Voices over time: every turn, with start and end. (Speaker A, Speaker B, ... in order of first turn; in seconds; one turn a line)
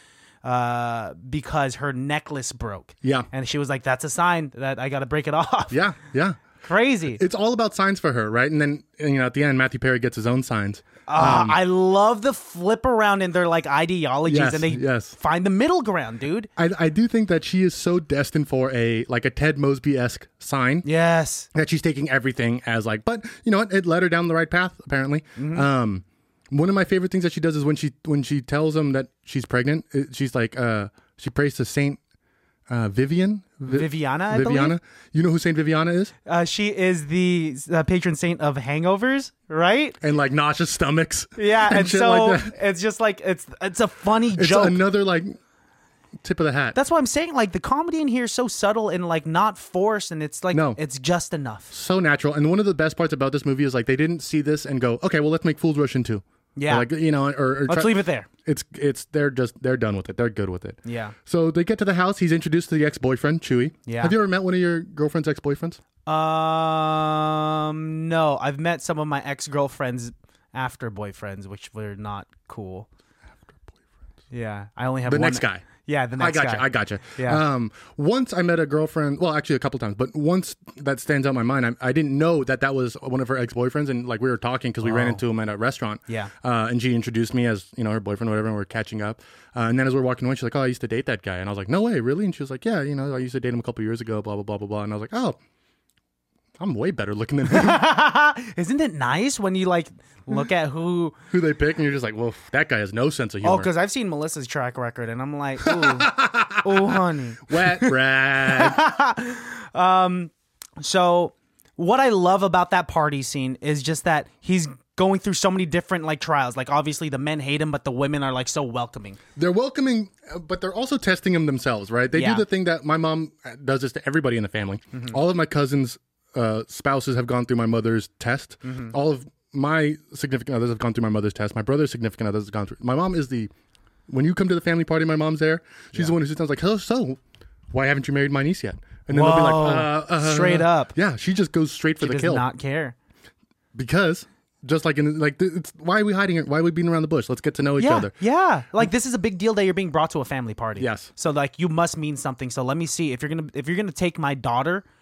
Speaker A: 0.4-5.7
Speaker B: 3.0-3.3
Speaker B: 5.7-6.4
Speaker A: 6.6-7.2
Speaker B: 7.1-11.6
Speaker A: 11.1-16.5
Speaker B: 14.3-15.1
Speaker B: 16.6-20.9
Speaker A: 20.8-21.5
Speaker B: 21.5-32.0
Speaker A: 25.4-25.7
Speaker B: 32.7-36.1
Speaker A: 33.7-34.8
Speaker A: 36.2-40.0
Speaker B: 40.0-42.5
Speaker A: 41.4-44.8
Speaker B: 44.3-45.4
Speaker B: 46.2-46.8
Speaker A: 46.7-51.7
Speaker B: 50.5-50.8
Speaker B: 51.7-65.8
Speaker A: 56.5-56.9
Speaker A: 57.7-58.3
Speaker A: 60.8-61.1
Speaker A: 63.9-64.1
Speaker A: 66.0-72.9
Speaker A: 74.3-77.4
Speaker B: 75.1-95.4
Speaker A: 84.8-85.2
Speaker B: 96.6-97.8
Speaker A: 97.5-101.2
Speaker B: 101.3-103.7
Speaker A: 103.4-107.9
Speaker B: 105.6-108.8
Speaker A: 108.4-119.2
Speaker B: 119.3-133.5
Speaker A: 122.1-122.4
Speaker A: 124.9-125.2
Speaker A: 128.6-128.9
Speaker B: 134.1-137.2
Speaker B: 137.7-142.4
Speaker A: 139.1-140.9
Speaker A: 142.0-142.9
Speaker B: 143.7-148.1
Speaker A: 147.8-154.8
Speaker B: 150.8-151.1